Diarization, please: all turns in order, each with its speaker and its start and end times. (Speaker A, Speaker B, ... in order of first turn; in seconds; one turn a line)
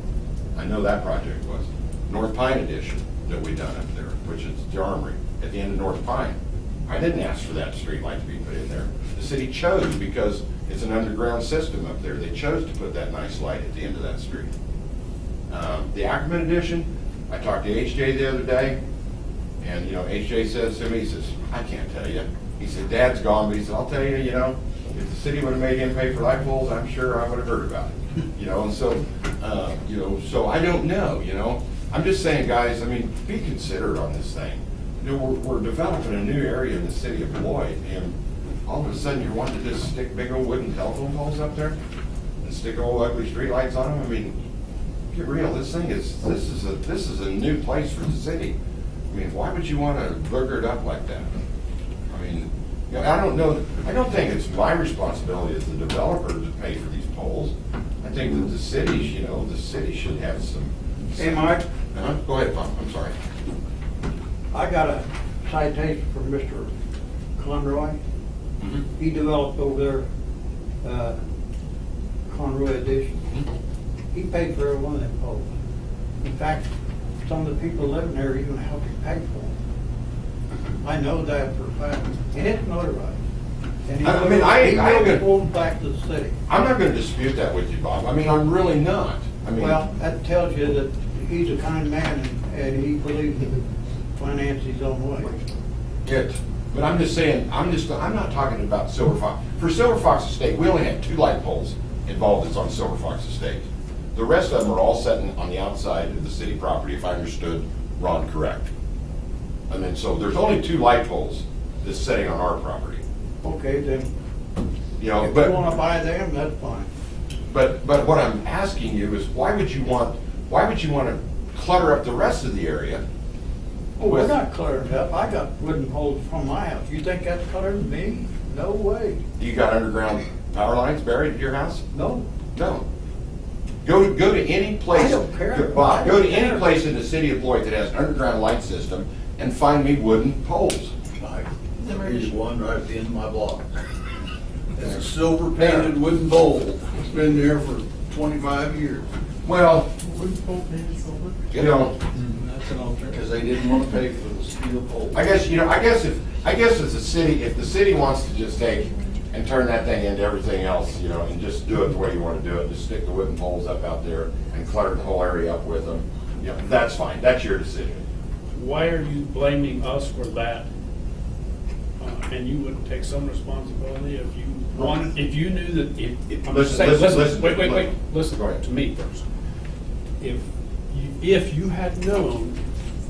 Speaker A: 0.6-6.4
Speaker A: 6.9-14.5
Speaker A: 15.5-18.8
Speaker A: 19.6-38.1
Speaker A: 38.7-41.8
Speaker A: 42.4-44.4
Speaker A: 45.1-48.5
Speaker A: 49.1-51.3
Speaker A: 52.1-63.1
Speaker B: 61.2-61.6
Speaker B: 64.5-66.7
Speaker B: 67.4-68.0
Speaker A: 68.6-68.8
Speaker B: 69.0-70.0
Speaker B: 70.8-71.2
Speaker B: 72.3-73.2
Speaker B: 74.1-75.5
Speaker B: 76.2-76.7
Speaker B: 77.2-79.5
Speaker B: 80.8-83.2
Speaker B: 83.9-86.3
Speaker A: 84.0-85.2
Speaker A: 86.5-89.8
Speaker B: 89.6-93.6
Speaker B: 94.2-95.5
Speaker A: 96.0-103.6
Speaker A: 104.2-108.7
Speaker A: 109.7-113.0
Speaker B: 113.4-114.1
Speaker A: 115.0-115.6
Speaker B: 115.2-116.9
Speaker A: 117.5-123.0
Speaker B: 124.0-129.2
Speaker A: 124.0-124.4
Speaker A: 129.4-131.8
Speaker B: 131.9-132.2
Speaker A: 132.6-132.8
Speaker A: 133.8-140.9
Speaker B: 134.9-136.7
Speaker C: 141.2-143.7
Speaker C: 144.8-149.1
Speaker A: 149.4-149.9
Speaker A: 151.5-151.9
Speaker C: 152.6-155.3
Speaker A: 155.1-168.0
Speaker D: 168.5-170.7
Speaker D: 172.0-179.2
Speaker A: 176.5-178.6
Speaker D: 180.2-182.6